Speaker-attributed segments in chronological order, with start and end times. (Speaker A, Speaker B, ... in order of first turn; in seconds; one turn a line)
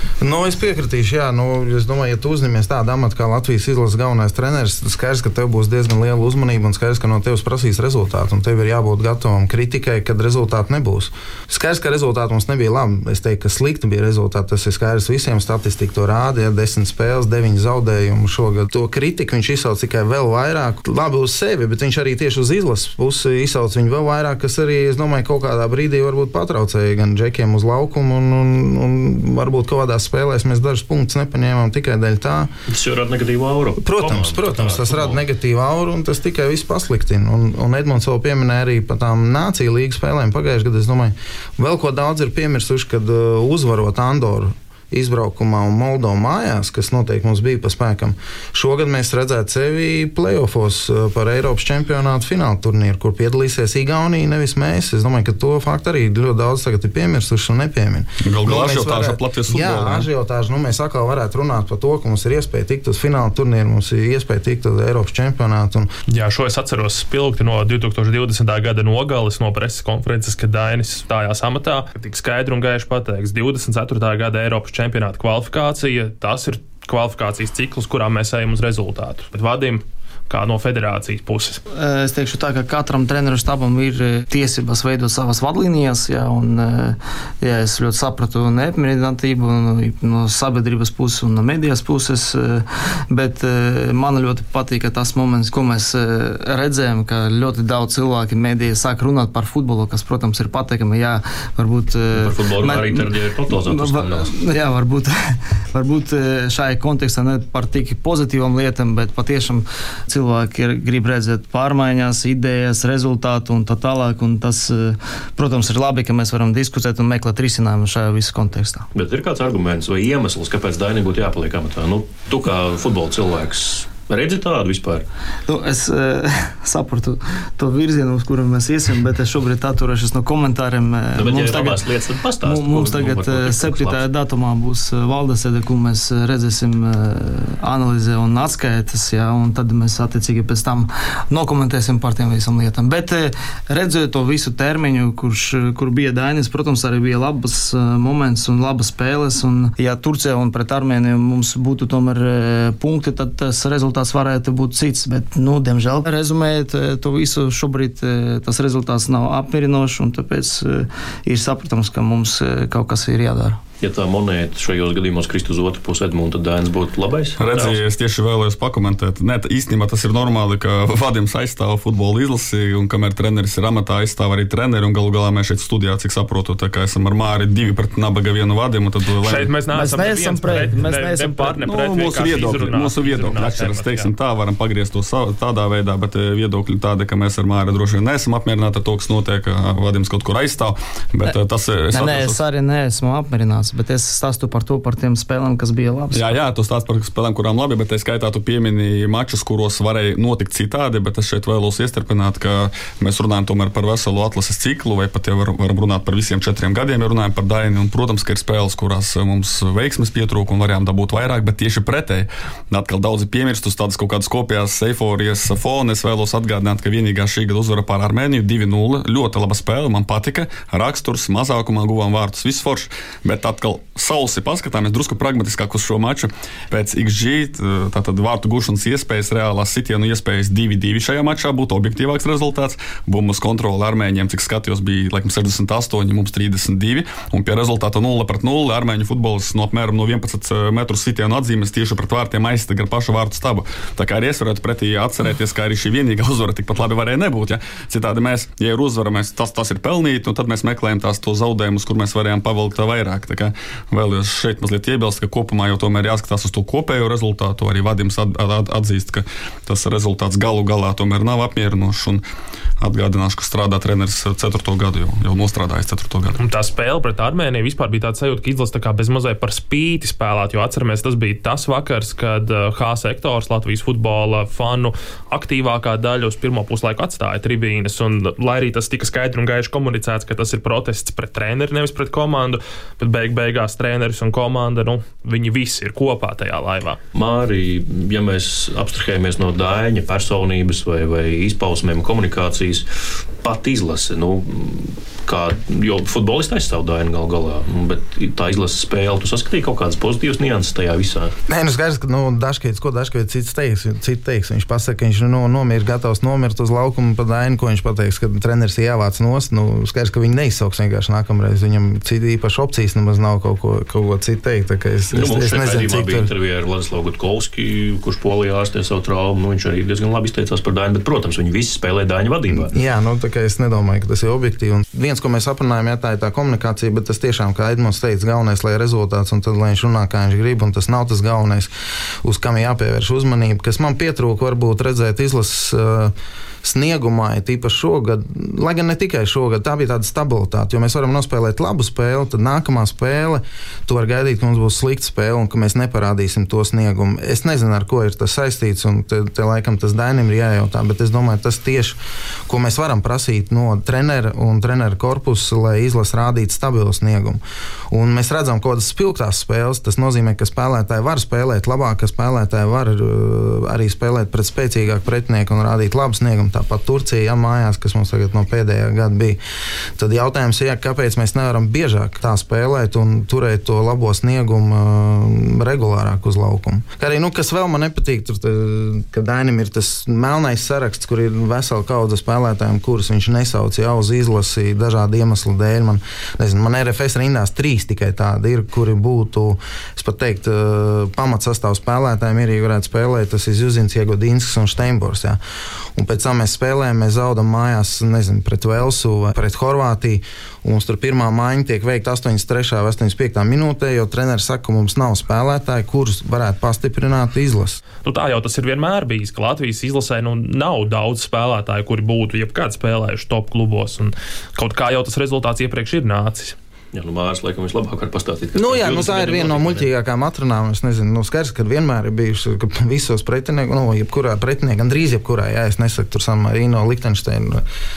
Speaker A: 0.2-32.5
Speaker B: 32.7-35.2
Speaker A: 33.8-65.9
Speaker C: 58.2-60.1
Speaker D: 66.1-81.6
Speaker E: 81.8-118.9
Speaker B: 102.1-104.3
Speaker B: 119.0-125.1
Speaker E: 125.5-131.8
Speaker B: 131.2-134.0
Speaker E: 132.4-163.6
Speaker B: 163.8-167.8
Speaker C: 167.4-179.5
Speaker D: 179.2-184.1
Speaker E: 179.7-181.7
Speaker C: 181.6-192.4
Speaker E: 191.9-196.3
Speaker C: 196.1-262.2
Speaker C: 262.8-266.4
Speaker D: 266.4-287.0
Speaker B: 287.1-292.9
Speaker B: 293.4-301.4
Speaker A: 301.5-316.3
Speaker B: 315.1-322.7
Speaker A: 322.6-331.7
Speaker A: 332.2-357.4
Speaker A: 357.9-369.4
Speaker A: 370.0-395.4
Speaker A: 395.9-407.8
Speaker D: 408.1-416.6
Speaker B: 416.9-419.9
Speaker A: 418.6-427.6